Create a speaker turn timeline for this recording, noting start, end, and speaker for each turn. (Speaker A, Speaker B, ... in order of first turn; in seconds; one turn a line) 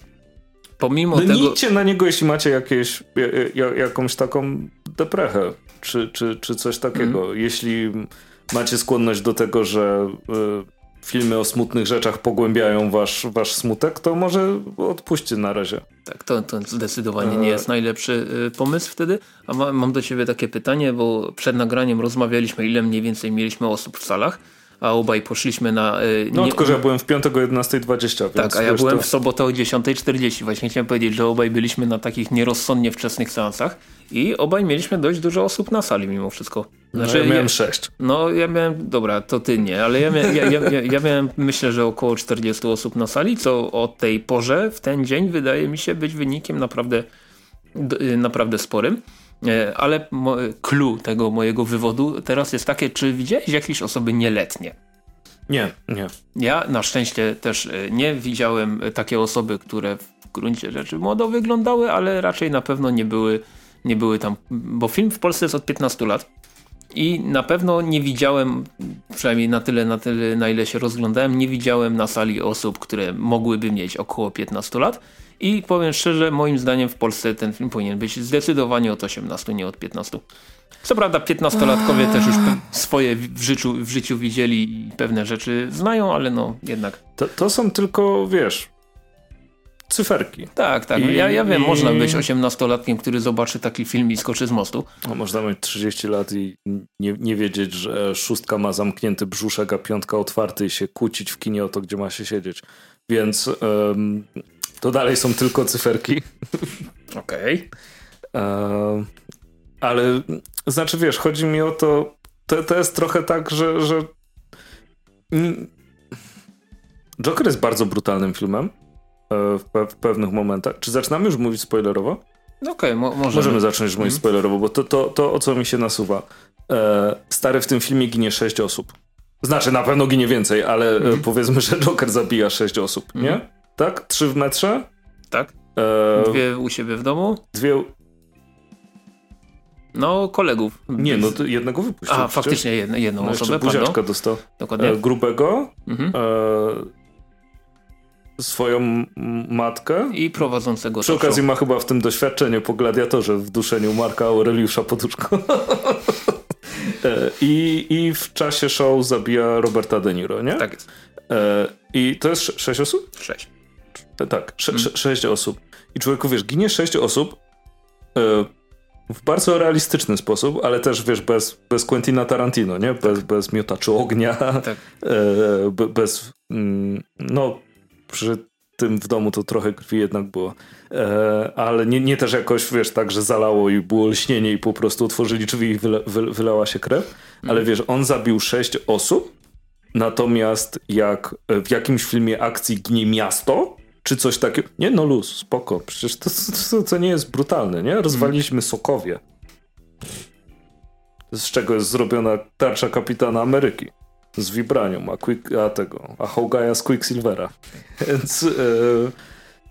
Speaker A: 0.8-1.6
Speaker B: 1.1-15.8
Speaker A: 16.1-26.8
Speaker B: 17.2-17.6
Speaker B: 26.3-29.1
Speaker A: 28.3-47.0
Speaker B: 36.9-37.9
Speaker A: 47.7-54.7
Speaker B: 55.5-56.1
Speaker A: 56.3-66.2
Speaker A: 66.9-80.2
Speaker A: 80.8-87.0
Speaker B: 87.2-88.7
Speaker B: 89.9-92.2
Speaker A: 90.5-94.9
Speaker B: 95.0-106.8
Speaker A: 107.1-107.7
Speaker B: 108.3-109.1
Speaker B: 109.8-114.1
Speaker B: 115.3-115.7
Speaker B: 117.2-118.7
Speaker B: 119.3-122.2
Speaker A: 122.6-124.2
Speaker B: 123.3-134.9
Speaker A: 133.1-133.4
Speaker B: 135.7-136.4
Speaker A: 136.1-137.4
Speaker B: 137.5-137.9
Speaker A: 139.9-141.3
Speaker B: 140.9-142.6
Speaker A: 142.1-144.0
Speaker B: 143.2-146.9
Speaker A: 144.6-145.0
Speaker A: 145.9-146.1
Speaker B: 148.4-150.2
Speaker A: 150.1-151.4
Speaker B: 151.0-160.7
Speaker A: 160.6-160.8
Speaker B: 161.3-163.1
Speaker A: 163.2-163.5
Speaker B: 164.2-167.4
Speaker B: 168.1-168.5
Speaker B: 169.1-189.3
Speaker B: 189.9-199.2
Speaker A: 198.1-198.3
Speaker B: 201.3-209.1